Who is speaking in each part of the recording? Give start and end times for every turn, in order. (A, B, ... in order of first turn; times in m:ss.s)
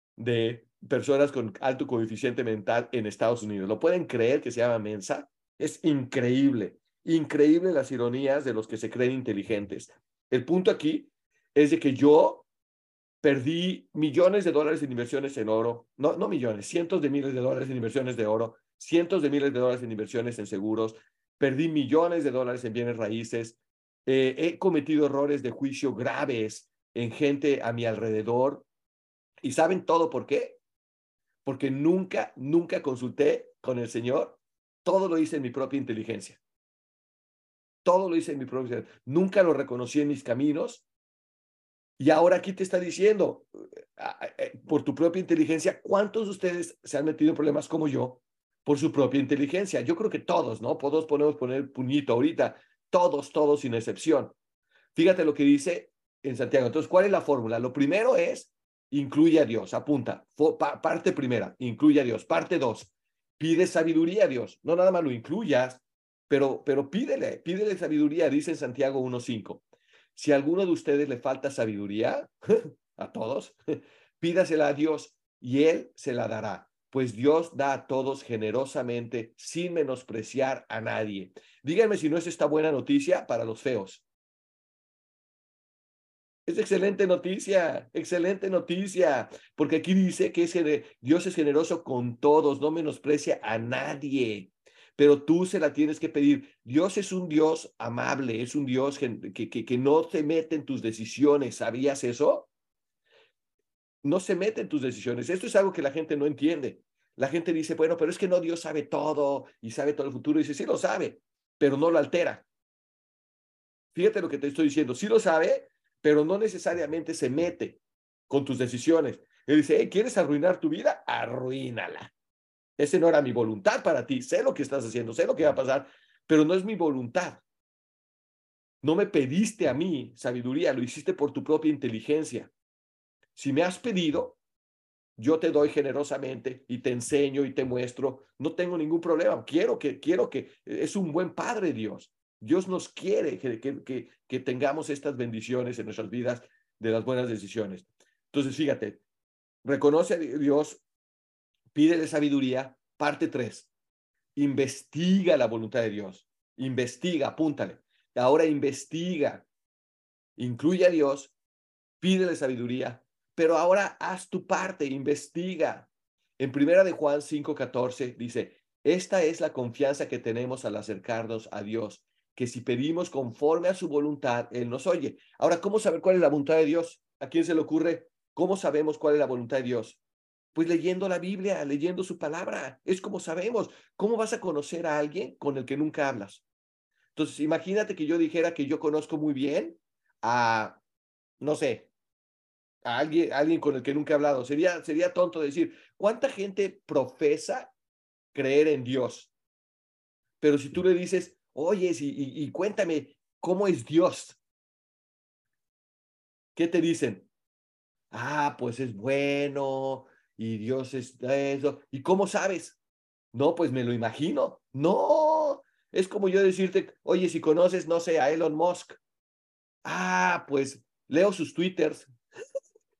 0:00.2-0:12.5 A
0:13.2-0:28.6 A
0:29.4-0:30.6 A
0:31.4-0:36.4 A
0:37.8-0:40.8 A
0:42.0-0:54.3 A
0:54.9-1:09.6 A
1:10.2-1:12.3 A
1:12.9-1:13.6 A
1:14.2-1:24.0 A
1:26.5-1:42.5 A
1:44.0-1:52.4 A
1:53.9-2:02.1 A
2:02.8-2:07.4 A
2:08.8-2:12.5 A
2:13.4-2:14.4 A
2:15.2-2:29.0 A
2:29.6-2:30.8 A
2:31.7-2:33.7 A
2:34.4-2:39.4 A
2:40.4-2:41.3 A
2:42.0-3:00.0 A
3:00.5-3:06.4 A
3:07.1-3:10.8 A
3:11.4-3:11.9 A
3:12.8-3:17.7 A
3:18.3-3:19.3 A
3:20.4-3:24.4 A
3:26.5-3:27.3 A
3:28.1-3:32.8 A
3:33.3-3:39.0 A
3:39.8-3:42.1 A